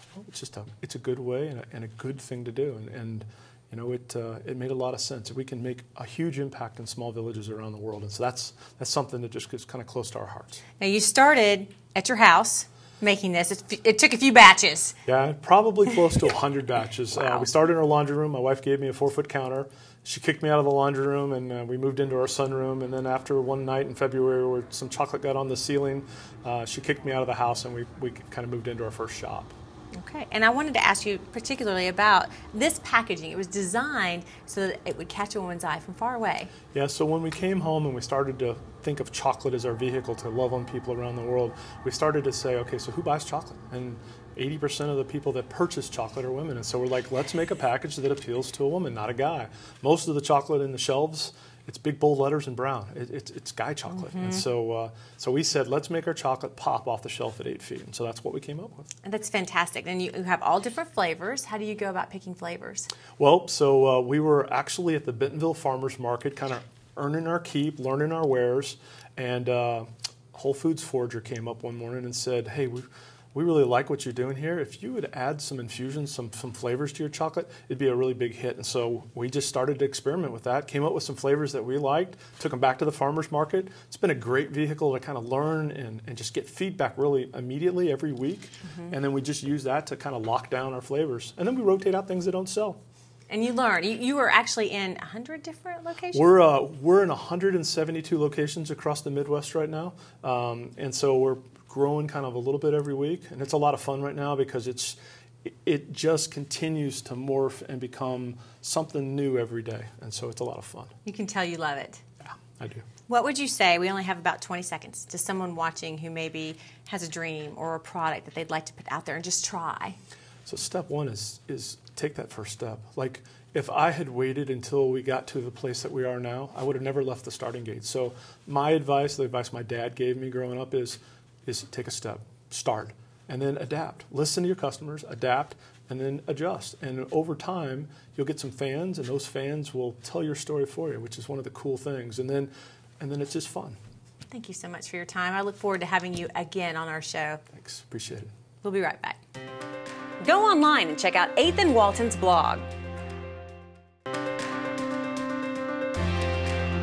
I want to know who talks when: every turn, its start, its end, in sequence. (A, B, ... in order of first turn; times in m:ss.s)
0:00.2-0:10.6 A
0:10.8-0:15.0 B
0:15.1-0:29.5 A
0:29.9-0:36.5 B
0:36.7-0:58.8 A
0:53.9-0:54.4 B
0:59.0-1:02.9 B
1:03.2-1:32.8 A
1:28.6-1:28.9 B
1:33.3-1:36.2 B
1:36.1-1:50.9 A
1:51.0-1:52.0 B
1:52.2-1:52.8 A
1:53.1-2:00.0 B
2:00.5-2:23.8 A
2:24.3-2:27.4 B
2:27.5-2:28.3 A
2:28.6-2:29.2 B
2:30.2-2:32.7 B